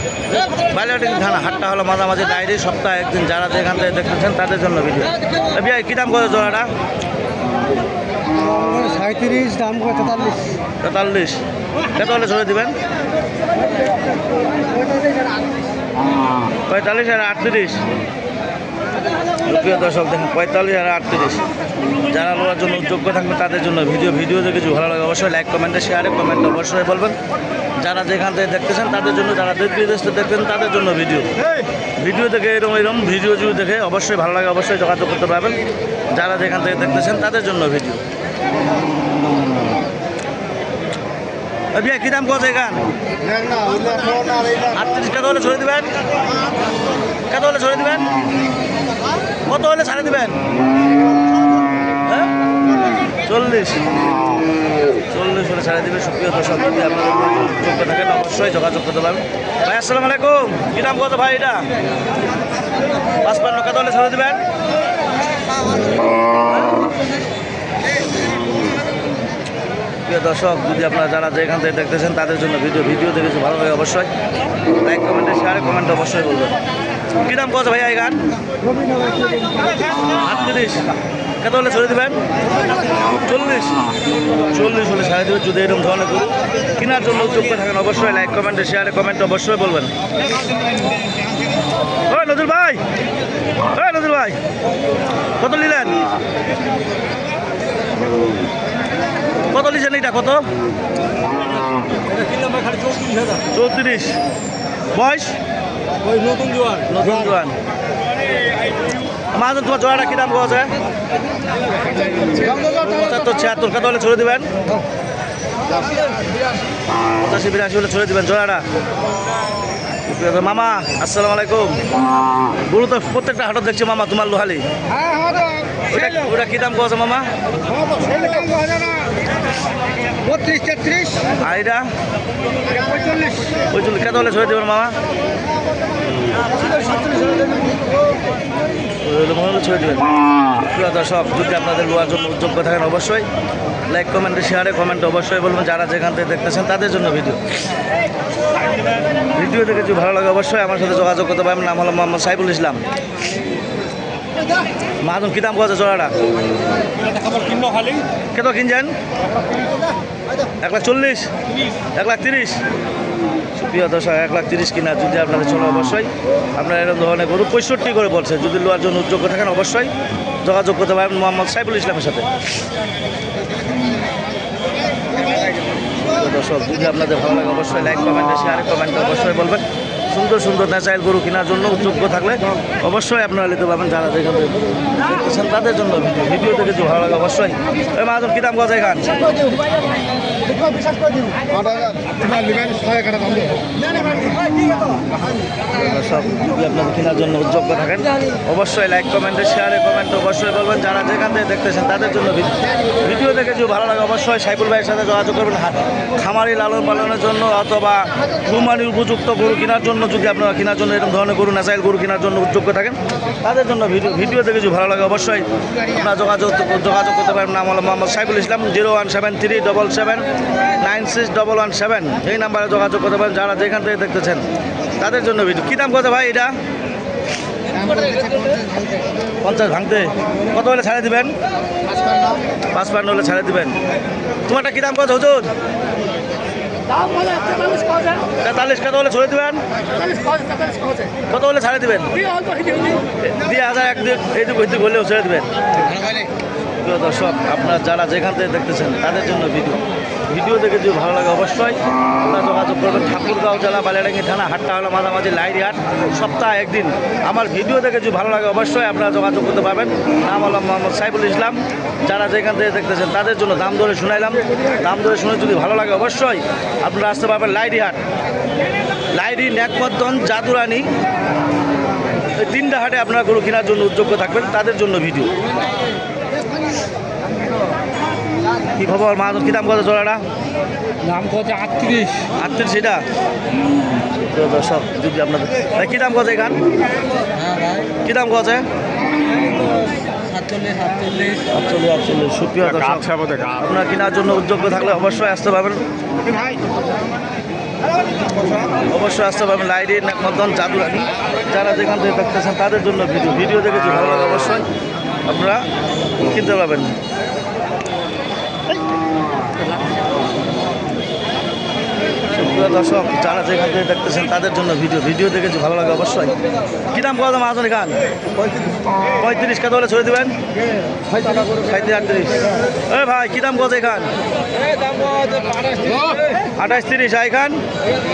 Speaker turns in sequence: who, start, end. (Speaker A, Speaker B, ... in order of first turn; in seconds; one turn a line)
Speaker A: 0.6-6.7
Speaker B: 8.4-10.5
Speaker A: 10.8-12.8
Speaker A: 16.7-17.8
Speaker A: 19.4-21.4
Speaker A: 22.1-27.2
Speaker A: 27.8-31.4
Speaker A: 32.0-35.6
Speaker A: 36.1-38.0
Speaker A: 41.7-42.9
Speaker B: 43.2-44.7
Speaker A: 44.7-46.0
Speaker A: 47.3-48.1
Speaker A: 49.5-50.4
Speaker A: 52.0-52.3
Speaker A: 53.2-54.0
Speaker A: 55.1-61.7
Speaker A: 63.2-64.4
Speaker A: 70.0-74.1
Speaker A: 74.8-76.6
Speaker A: 77.2-78.3
Speaker A: 80.2-80.9
Speaker A: 81.4-82.2
Speaker A: 83.1-83.8
Speaker A: 84.5-89.9
Speaker A: 92.1-92.8
Speaker A: 93.7-94.4
Speaker A: 95.4-96.0
Speaker A: 99.5-100.5
Speaker B: 102.3-103.3
Speaker A: 103.5-104.2
Speaker A: 104.9-105.3
Speaker B: 106.1-106.8
Speaker A: 106.9-107.6
Speaker A: 109.3-110.7
Speaker A: 112.4-114.5
Speaker A: 117.1-118.7
Speaker A: 120.1-121.8
Speaker A: 122.7-124.7
Speaker B: 125.0-125.9
Speaker A: 125.9-127.3
Speaker B: 127.9-129.1
Speaker B: 130.2-131.3
Speaker A: 131.4-131.9
Speaker B: 132.8-133.6
Speaker A: 133.6-135.0
Speaker B: 136.9-137.5
Speaker A: 139.0-143.3
Speaker A: 143.9-147.4
Speaker A: 149.3-152.8
Speaker A: 155.0-156.2
Speaker B: 157.1-158.0
Speaker A: 158.3-158.9
Speaker A: 160.6-161.3
Speaker A: 161.9-162.6
Speaker A: 163.6-172.3
Speaker A: 176.1-189.3
Speaker B: 190.6-193.7
Speaker A: 195.7-224.4
Speaker A: 225.0-226.6
Speaker B: 227.7-229.0
Speaker A: 229.4-231.3
Speaker A: 232.7-233.8
Speaker A: 234.5-235.5
Speaker B: 236.9-238.2
Speaker A: 238.3-239.6
Speaker B: 240.1-241.1
Speaker A: 241.2-245.5
Speaker B: 246.0-246.2
Speaker A: 246.8-268.0
Speaker A: 269.1-270.9
Speaker A: 272.4-275.4
Speaker A: 278.8-280.2
Speaker B: 281.0-282.3
Speaker A: 282.3-283.0
Speaker A: 284.2-286.6
Speaker B: 287.4-287.9
Speaker A: 288.0-288.7
Speaker B: 290.3-291.5
Speaker A: 291.5-295.8
Speaker A: 298.9-304.7
Speaker A: 305.3-305.7
Speaker A: 306.2-306.9
Speaker A: 312.3-316.4
Speaker A: 316.9-318.0
Speaker A: 319.1-320.4
Speaker A: 321.4-324.1
Speaker B: 325.1-326.2
Speaker A: 326.4-327.6